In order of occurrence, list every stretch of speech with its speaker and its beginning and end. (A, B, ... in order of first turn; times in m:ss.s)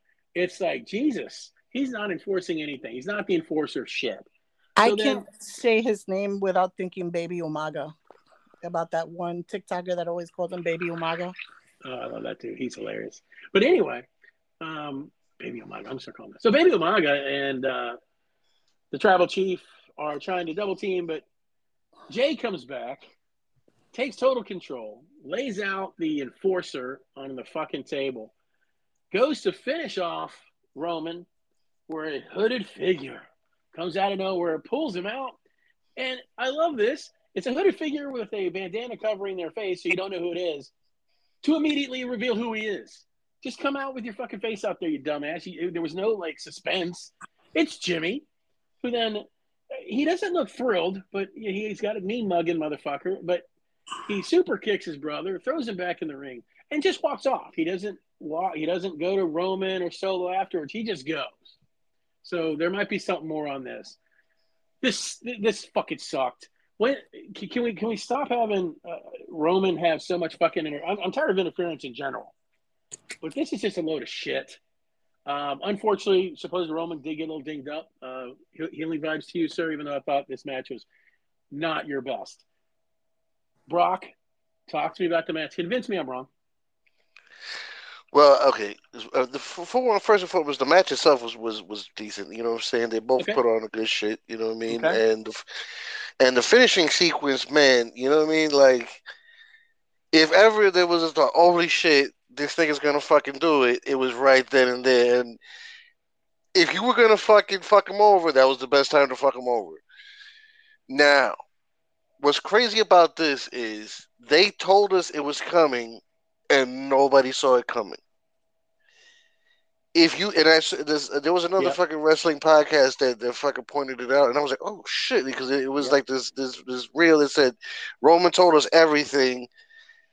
0:00.3-0:04.2 A
0:04.8-0:07.9 B
0:04.8-0:05.2 A
0:08.6-0:11.3 B
0:11.8-0:14.1 A
0:14.6-0:18.0 A
0:18.9-0:21.2 A
0:22.1-0:23.1 A
0:23.9-0:28.3 A
0:29.1-0:31.3 A
0:31.9-0:35.4 A
0:36.0-0:40.7 A
0:41.4-0:48.2 A
0:48.8-0:53.4 A
0:54.0-1:01.5 A
1:02.2-1:04.0 A
1:04.8-1:12.3 A
1:13.2-1:14.6 A
1:15.2-1:20.9 A
1:21.5-1:22.4 A
1:23.7-1:24.1 A
1:24.7-1:26.3 A
1:28.1-1:35.4 C
1:34.7-1:35.0 A
1:36.2-1:39.0 C
1:40.1-1:45.4 C
1:46.5-1:49.8 C
1:50.9-1:51.4 C
1:52.2-1:58.0 C
1:59.9-2:09.5 C